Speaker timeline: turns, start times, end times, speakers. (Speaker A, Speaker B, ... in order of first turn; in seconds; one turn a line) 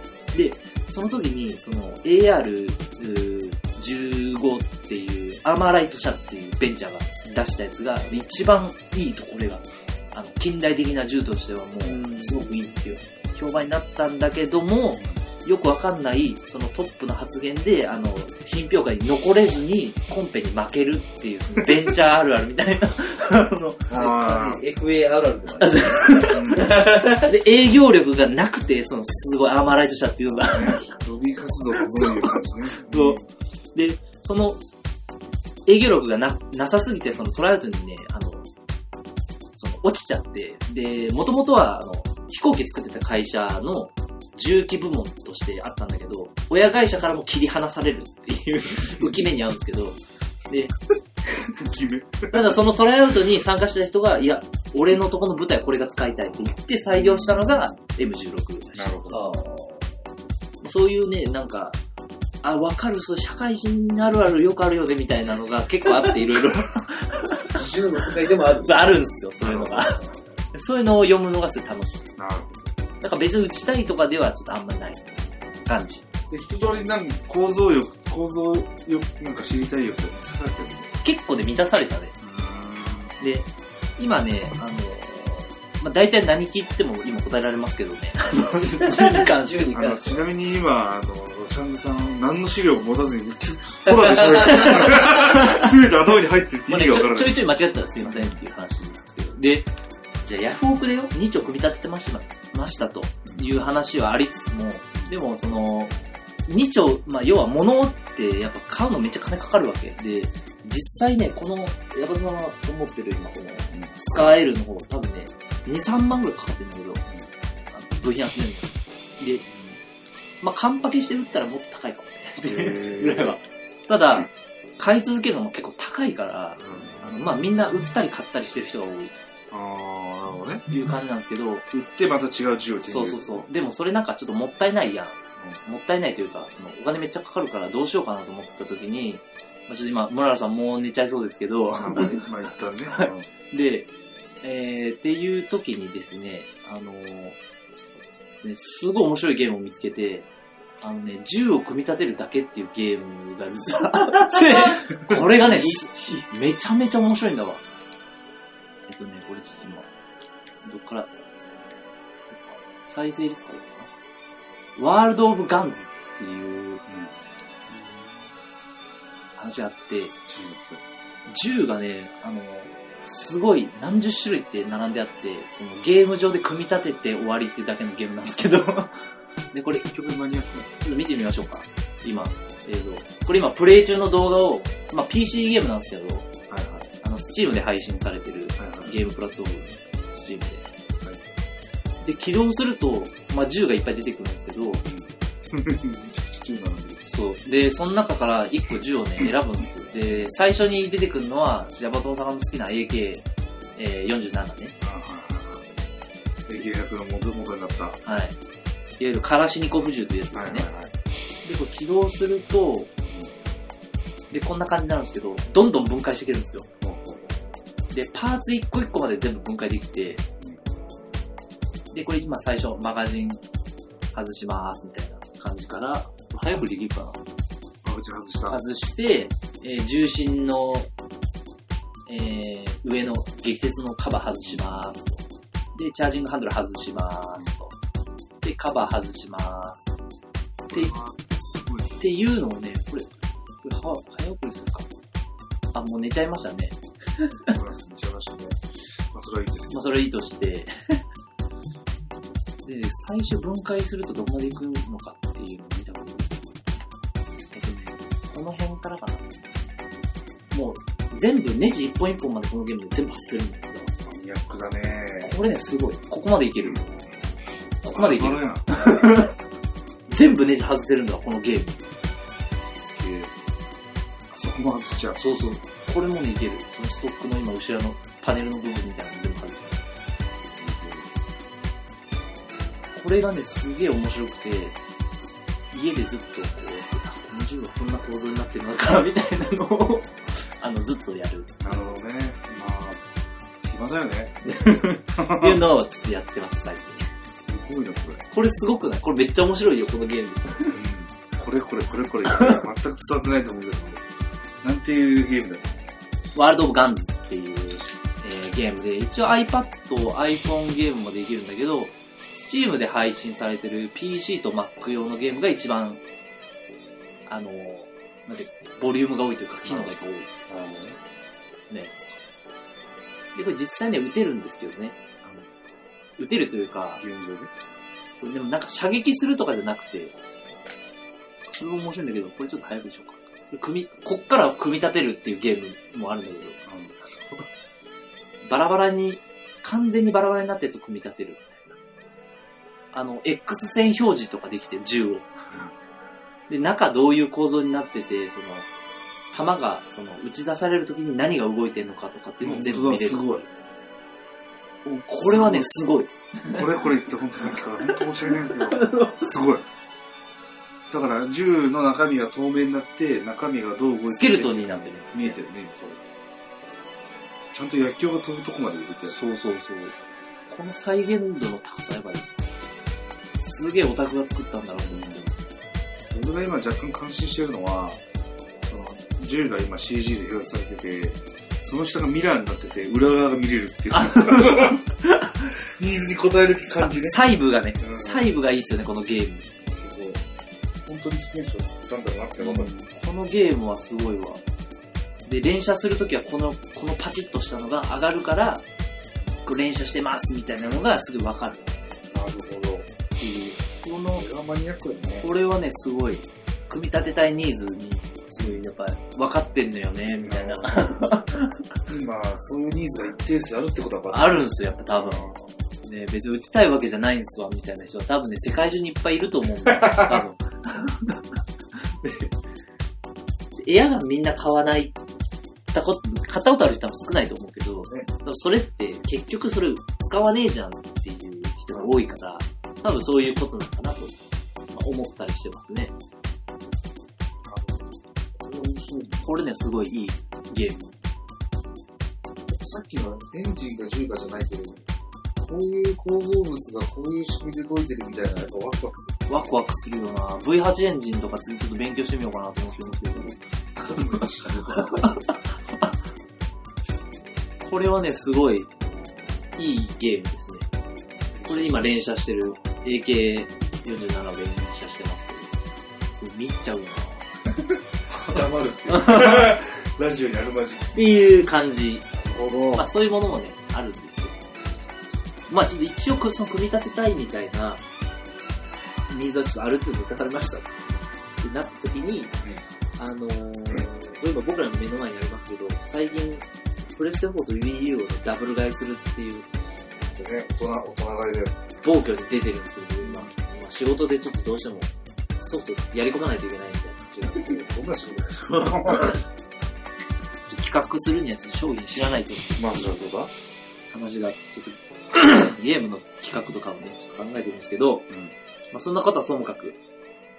Speaker A: 0.3-24.1
Speaker B: 11.8-12.5
Speaker C: 23.9-24.6
Speaker B: 23.9-27.2
Speaker A: 25.6-30.9
Speaker C: 26.3-26.8
Speaker C: 30.4-33.2
Speaker A: 31.8-33.2
Speaker A: 33.7-34.6
Speaker A: 35.6-38.5
Speaker A: 39.5-50.7
Speaker C: 51.4-52.6
Speaker A: 52.3-59.3
Speaker C: 56.9-57.8
Speaker C: 58.7-59.2
Speaker B: 59.1-59.9
Speaker A: 60.6-61.8
Speaker A: 62.4-67.5
Speaker B: 67.5-69.0
Speaker A: 68.6-70.0
Speaker C: 69.4-70.0
Speaker A: 70.5-72.1
Speaker C: 72.2-72.7
Speaker A: 73.0-76.0
Speaker C: 76.3-80.9
Speaker A: 81.0-82.1
Speaker C: 82.2-83.1
Speaker A: 83.2-90.2
Speaker B: 89.0-90.0
Speaker C: 89.7-97.4
Speaker A: 94.4-95.7
Speaker A: 96.7-99.7
Speaker C: 98.0-98.3
Speaker A: 100.2-105.9
Speaker C: 103.2-103.5
Speaker A: 106.5-117.0
Speaker C: 113.7-114.3
Speaker A: 117.7-119.4
Speaker C: 119.4-119.8
Speaker A: 120.4-129.2
Speaker C: 122.4-123.3
Speaker C: 126.6-127.2
Speaker C: 129.5-130.6
Speaker A: 130.7-131.7
Speaker C: 131.7-133.4
Speaker A: 132.8-142.2
Speaker C: 141.7-143.3
Speaker A: 142.9-143.9
Speaker A: 144.4-150.3
Speaker A: 150.8-157.6
Speaker B: 155.4-156.3
Speaker A: 158.9-159.9
Speaker A: 160.6-161.1
Speaker A: 162.3-163.9
Speaker A: 164.8-166.8
Speaker C: 166.9-167.1
Speaker C: 167.7-168.2
Speaker A: 169.4-170.1
Speaker C: 170.3-170.8
Speaker A: 171.2-179.9
Speaker C: 179.8-180.7
Speaker A: 180.7-186.3
Speaker C: 186.5-186.9
Speaker A: 187.0-190.6
Speaker C: 188.6-189.0
Speaker A: 192.0-194.8
Speaker C: 194.8-197.0
Speaker A: 197.0-203.2
Speaker A: 203.8-204.7
Speaker C: 204.8-205.7
Speaker C: 206.4-208.0
Speaker A: 208.0-208.3
Speaker A: 209.0-210.7
Speaker C: 210.3-210.9
Speaker A: 211.4-212.9
Speaker C: 213.1-213.3
Speaker A: 214.3-216.7
Speaker C: 216.8-217.3
Speaker A: 217.9-220.2
Speaker A: 221.9-223.4
Speaker A: 224.1-227.2
Speaker C: 227.8-228.6
Speaker A: 228.5-230.9
Speaker A: 232.1-235.2
Speaker C: 234.3-234.9
Speaker A: 235.7-237.7
Speaker A: 238.4-239.9
Speaker C: 240.7-241.9
Speaker A: 242.0-243.1
Speaker A: 243.6-244.9
Speaker A: 245.7-247.5
Speaker C: 247.5-249.8
Speaker A: 249.7-251.0
Speaker A: 252.6-256.5
Speaker A: 257.5-259.3
Speaker A: 260.5-263.9
Speaker C: 264.0-265.3
Speaker A: 265.2-266.9
Speaker A: 267.8-269.3
Speaker C: 267.9-269.1
Speaker A: 270.1-271.8
Speaker C: 272.7-273.4
Speaker C: 274.3-275.4
Speaker A: 275.1-279.8
Speaker C: 280.4-281.1
Speaker A: 282.9-284.8
Speaker A: 285.7-291.9
Speaker C: 291.6-293.0
Speaker C: 293.6-294.4
Speaker A: 294.4-297.1
Speaker C: 295.1-295.6
Speaker C: 297.3-298.2
Speaker A: 298.3-300.8
Speaker C: 300.7-304.0
Speaker C: 304.6-305.8
Speaker A: 306.3-316.0
Speaker A: 317.3-320.4
Speaker C: 319.6-319.9
Speaker C: 320.5-321.0
Speaker A: 321.7-322.2
Speaker A: 323.3-325.4
Speaker A: 326.2-327.0
Speaker C: 327.0-327.5
Speaker A: 328.2-330.1
Speaker A: 331.5-336.6
Speaker C: 336.6-337.4
Speaker A: 338.4-341.8
Speaker A: 342.9-345.3
Speaker A: 346.5-348.7
Speaker A: 349.3-353.4
Speaker C: 352.4-353.4
Speaker A: 354.8-356.7
Speaker C: 355.2-355.8
Speaker C: 356.5-359.6
Speaker A: 357.8-359.3
Speaker C: 360.9-366.0
Speaker A: 364.1-365.4
Speaker C: 367.5-369.1
Speaker A: 369.0-369.9
Speaker A: 370.5-372.3
Speaker A: 373.4-375.3
Speaker C: 374.9-375.3
Speaker C: 376.1-378.0
Speaker C: 378.7-384.8
Speaker A: 383.9-385.4
Speaker C: 385.8-387.2
Speaker A: 386.7-389.5
Speaker C: 387.8-388.3
Speaker C: 389.6-390.2
Speaker C: 390.8-392.9
Speaker A: 392.4-394.4
Speaker A: 395.2-398.6
Speaker A: 399.4-401.8
Speaker C: 400.6-400.8
Speaker C: 402.1-402.9
Speaker A: 403.2-404.2
Speaker C: 404.1-405.3
Speaker A: 405.2-411.6
Speaker C: 410.2-411.1
Speaker C: 411.9-415.5
Speaker A: 414.1-415.3
Speaker A: 415.8-421.2
Speaker C: 419.9-420.2
Speaker A: 421.8-422.3
Speaker A: 423.6-425.0
Speaker A: 425.7-434.1
Speaker A: 434.7-435.9
Speaker C: 437.4-439.3
Speaker A: 439.2-440.9
Speaker C: 442.6-444.9
Speaker C: 445.4-449.2
Speaker A: 449.3-453.4
Speaker C: 453.1-455.3
Speaker A: 454.7-455.3
Speaker A: 457.6-458.7
Speaker A: 459.6-460.7
Speaker C: 461.3-461.9
Speaker A: 461.5-465.5
Speaker C: 462.4-462.7
Speaker A: 466.2-467.2
Speaker C: 468.3-471.1
Speaker A: 468.9-469.5
Speaker A: 470.9-472.1
Speaker C: 472.1-472.9
Speaker A: 472.7-474.3
Speaker A: 475.5-477.8
Speaker A: 479.1-480.7
Speaker A: 481.4-482.3
Speaker A: 483.0-489.5
Speaker C: 490.1-491.6
Speaker A: 491.8-497.4
Speaker C: 493.0-493.3
Speaker C: 497.1-499.2
Speaker A: 498.5-499.2
Speaker A: 500.5-503.1
Speaker C: 502.6-503.3
Speaker A: 503.9-508.1
Speaker A: 508.7-509.8